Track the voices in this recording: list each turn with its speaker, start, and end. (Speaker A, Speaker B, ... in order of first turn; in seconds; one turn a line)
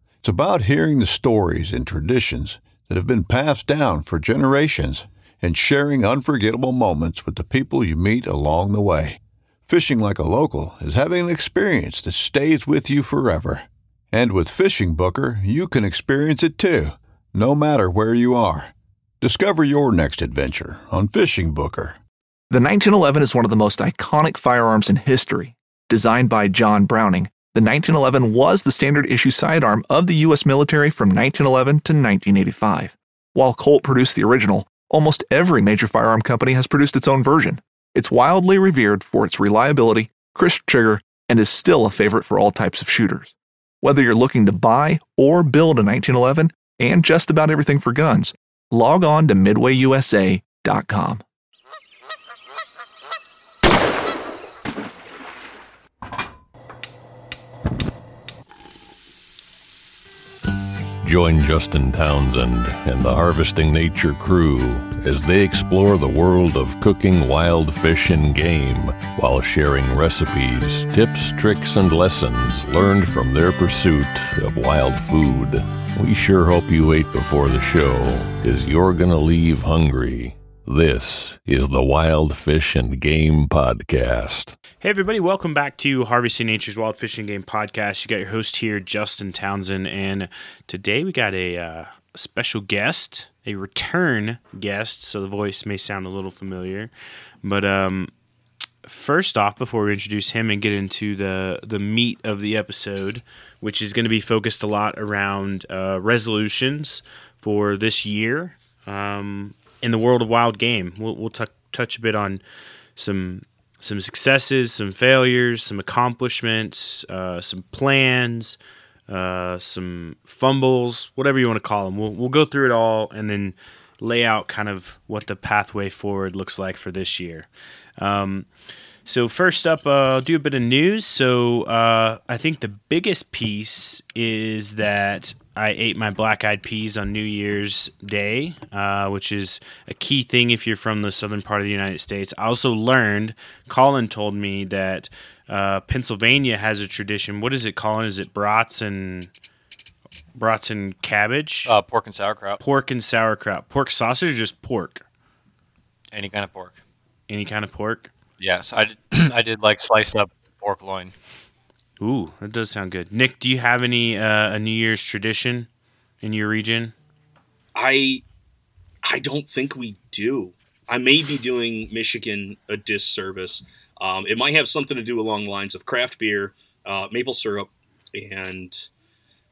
Speaker A: 0.2-22.0
Speaker B: 22.5-51.2
Speaker C: 61.0-84.6
Speaker D: 84.8-96.9
Speaker D: 97.4-98.1
Speaker D: 98.8-112.4
Speaker D: 113.0-128.5
Speaker D: 129.1-149.3
Speaker D: 150.3-151.7
Speaker E: 151.7-152.6
Speaker D: 152.6-155.0
Speaker E: 156.1-156.8
Speaker D: 157.3-158.1
Speaker E: 158.4-161.1
Speaker D: 162.0-165.7
Speaker D: 166.2-166.9
Speaker F: 167.8-168.2
Speaker F: 169.0-178.9